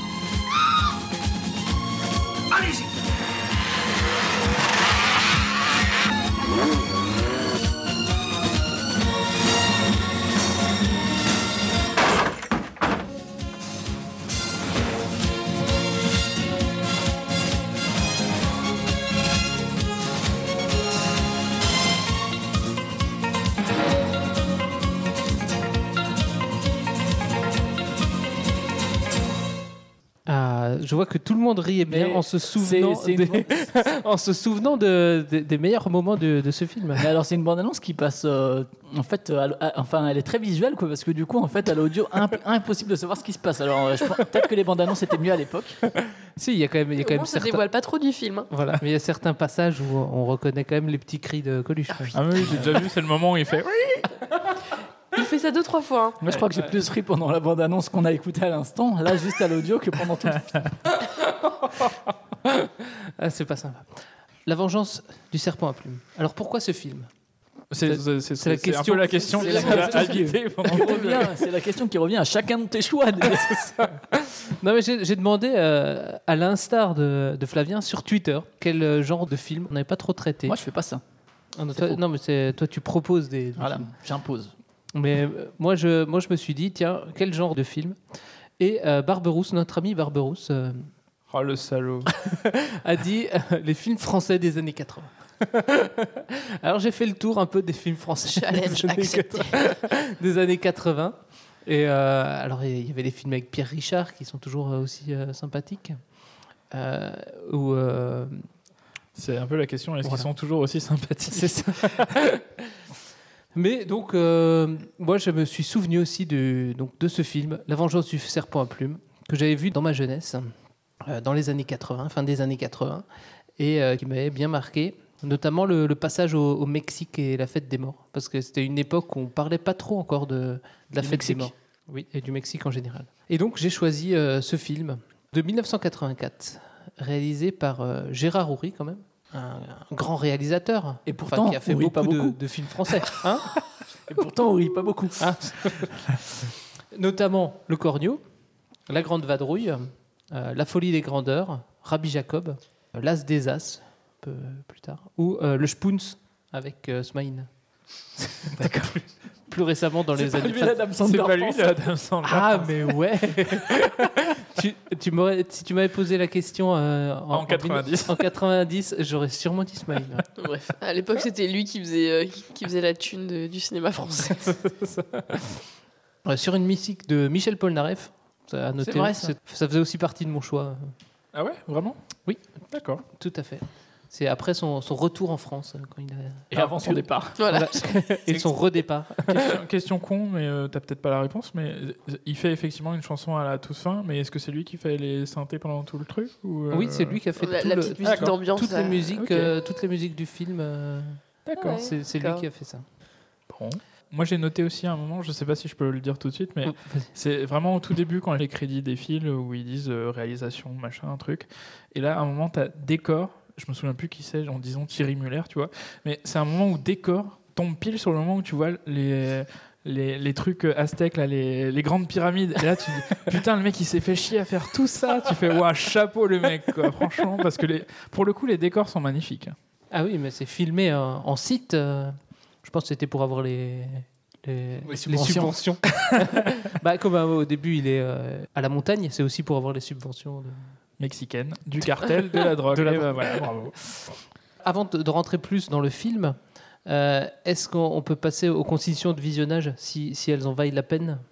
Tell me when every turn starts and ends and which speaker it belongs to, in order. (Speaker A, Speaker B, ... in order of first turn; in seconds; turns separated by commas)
Speaker A: 30.3-37.1, Speaker B: 31.9-33.8, Speaker B: 37.0-45.8, Speaker A: 46.4-47.6, Speaker C: 47.0-48.5, Speaker A: 48.5-52.8, Speaker D: 52.1-54.1, Speaker C: 55.1-56.2, Speaker B: 56.2-60.7, Speaker A: 63.2-67.1, Speaker D: 67.7-71.2, Speaker A: 67.8-70.4, Speaker B: 69.4-73.9, Speaker A: 74.1-80.6, Speaker B: 80.5-81.0, Speaker A: 81.6-83.9, Speaker B: 81.7-82.0, Speaker B: 83.5-84.5, Speaker A: 84.9-88.0, Speaker A: 88.6-90.9, Speaker D: 91.3-92.1, Speaker A: 92.3-106.0, Speaker C: 98.3-99.7, Speaker A: 106.7-108.5, Speaker D: 109.1-112.1, Speaker A: 110.0-110.3, Speaker A: 111.3-112.4, Speaker A: 113.5-123.0, Speaker A: 123.6-143.5, Speaker B: 131.0-131.5, Speaker B: 141.1-143.2, Speaker B: 144.1-145.8, Speaker A: 145.2-146.4, Speaker A: 146.9-148.2, Speaker A: 148.9-157.5, Speaker A: 158.2-158.7, Speaker B: 158.6-158.9, Speaker A: 159.5-160.9, Speaker B: 160.1-161.8, Speaker D: 161.0-162.9, Speaker A: 162.2-170.2, Speaker D: 167.3-168.2, Speaker C: 170.4-174.5, Speaker A: 174.5-175.5, Speaker A: 176.2-180.9, Speaker B: 178.8-179.3, Speaker D: 181.3-182.0, Speaker D: 182.7-183.0, Speaker A: 183.0-189.3, Speaker B: 186.5-187.4, Speaker C: 187.4-187.7, Speaker D: 188.3-188.5, Speaker D: 189.2-197.2, Speaker A: 196.7-201.2, Speaker C: 197.4-199.1, Speaker D: 198.0-198.4, Speaker D: 199.2-199.5, Speaker D: 201.4-201.8, Speaker C: 201.5-202.4, Speaker A: 201.7-202.8, Speaker D: 203.5-229.5, Speaker A: 206.7-207.1, Speaker A: 229.9-240.7, Speaker B: 234.8-235.6, Speaker D: 241.0-243.8, Speaker A: 242.7-243.5, Speaker A: 244.6-251.2